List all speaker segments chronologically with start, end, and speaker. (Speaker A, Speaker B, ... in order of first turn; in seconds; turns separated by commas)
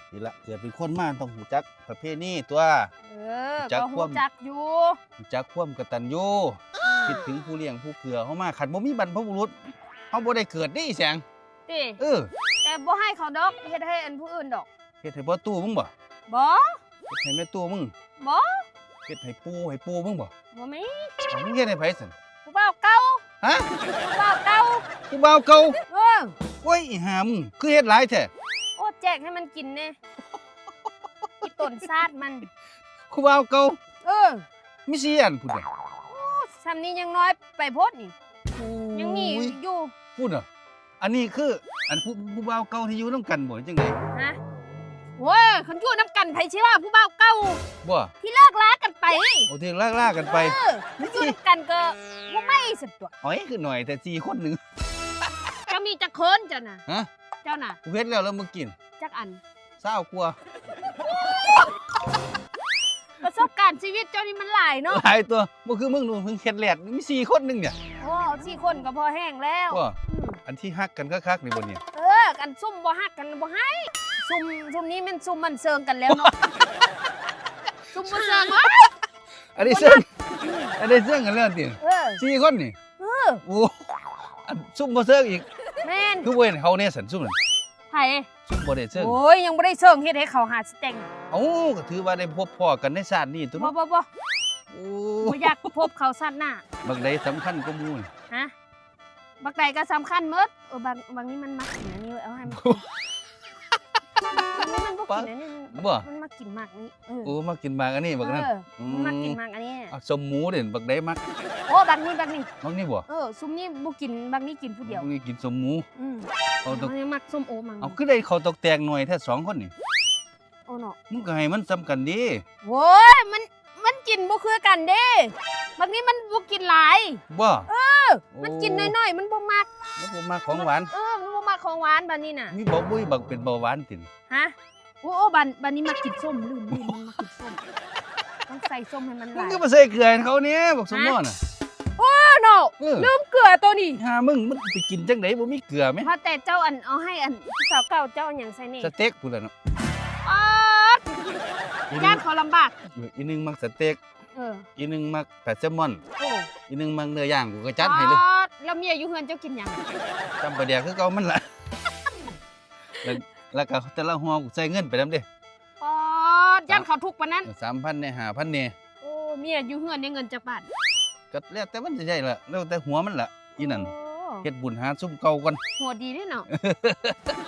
Speaker A: 0.1-2.9, Speaker B: 3.1-5.0, Speaker A: 3.6-4.2, Speaker A: 5.2-9.5, Speaker B: 6.8-7.2, Speaker A: 10.1-11.2, Speaker B: 11.7-12.0, Speaker A: 12.0-12.3, Speaker B: 12.6-14.7, Speaker A: 15.0-15.9, Speaker B: 16.3-16.8, Speaker A: 17.1-17.9, Speaker B: 18.2-18.6, Speaker A: 19.1-20.3, Speaker B: 20.5-21.1, Speaker A: 21.3-22.1, Speaker B: 22.4-23.2, Speaker A: 23.4-23.7, Speaker B: 24.0-24.9, Speaker A: 25.1-25.8, Speaker B: 25.9-26.3, Speaker A: 26.6-28.3, Speaker B: 28.8-29.9, Speaker B: 31.4-32.5, Speaker A: 33.1-33.8, Speaker B: 34.0-34.4, Speaker A: 34.9-35.6, Speaker B: 36.1-38.1, Speaker A: 38.5-39.6, Speaker B: 38.9-39.9, Speaker A: 40.1-40.5, Speaker A: 41.0-44.0, Speaker B: 44.1-44.4, Speaker B: 45.2-47.6, Speaker A: 47.8-48.1, Speaker B: 48.2-49.5, Speaker A: 49.5-51.4, Speaker B: 50.2-53.1, Speaker A: 53.2-54.6, Speaker B: 55.6-56.8, Speaker B: 57.4-57.8, Speaker A: 57.8-58.7, Speaker B: 59.0-59.4, Speaker A: 59.8-60.4, Speaker B: 63.2-65.0, Speaker A: 64.9-67.8, Speaker B: 68.0-70.4, Speaker A: 69.7-71.8, Speaker B: 71.9-76.3, Speaker B: 77.9-78.9, Speaker A: 78.0-78.6, Speaker A: 79.5-80.0, Speaker B: 79.6-80.7, Speaker A: 80.8-82.8, Speaker B: 81.8-82.2, Speaker B: 83.0-83.4, Speaker A: 83.5-85.5, Speaker B: 85.8-86.3, Speaker A: 86.2-87.3, Speaker B: 87.9-88.3, Speaker A: 88.5-89.2, Speaker B: 89.0-91.1, Speaker A: 91.3-93.7, Speaker B: 93.5-94.1, Speaker A: 94.7-95.7, Speaker B: 95.2-96.6, Speaker A: 96.8-98.1, Speaker B: 99.4-102.8, Speaker A: 102.5-102.8, Speaker B: 104.3-107.3, Speaker A: 105.1-106.0, Speaker A: 107.2-109.4, Speaker B: 108.2-109.9, Speaker A: 109.9-111.2, Speaker B: 111.7-112.5, Speaker A: 112.6-113.0, Speaker B: 113.1-115.1, Speaker A: 114.8-115.8, Speaker B: 116.0-118.0, Speaker A: 116.6-116.9, Speaker A: 117.8-119.7, Speaker B: 120.7-121.0, Speaker A: 121.1-122.4, Speaker B: 122.6-129.7, Speaker A: 127.3-127.7, Speaker A: 128.3-128.9, Speaker A: 130.0-130.9, Speaker B: 130.5-132.6, Speaker A: 132.5-134.1, Speaker B: 134.3-137.6, Speaker A: 136.7-137.0, Speaker B: 138.5-139.6, Speaker A: 139.3-141.4, Speaker B: 140.9-141.2, Speaker B: 142.0-144.0, Speaker A: 142.8-143.1, Speaker A: 144.0-146.1, Speaker B: 146.0-148.9, Speaker A: 148.8-149.5, Speaker B: 150.2-151.4, Speaker A: 151.9-152.2, Speaker B: 152.0-152.8, Speaker A: 152.9-154.0, Speaker B: 154.3-154.7, Speaker A: 154.8-156.0, Speaker B: 156.2-156.5, Speaker A: 156.7-158.2, Speaker B: 157.8-159.8, Speaker A: 160.4-161.5, Speaker A: 163.0-165.2, Speaker B: 165.8-167.5, Speaker A: 167.4-168.7, Speaker B: 169.0-170.7, Speaker A: 171.3-173.9, Speaker B: 173.6-174.4, Speaker A: 174.4-175.6, Speaker B: 175.8-176.5, Speaker A: 176.5-177.3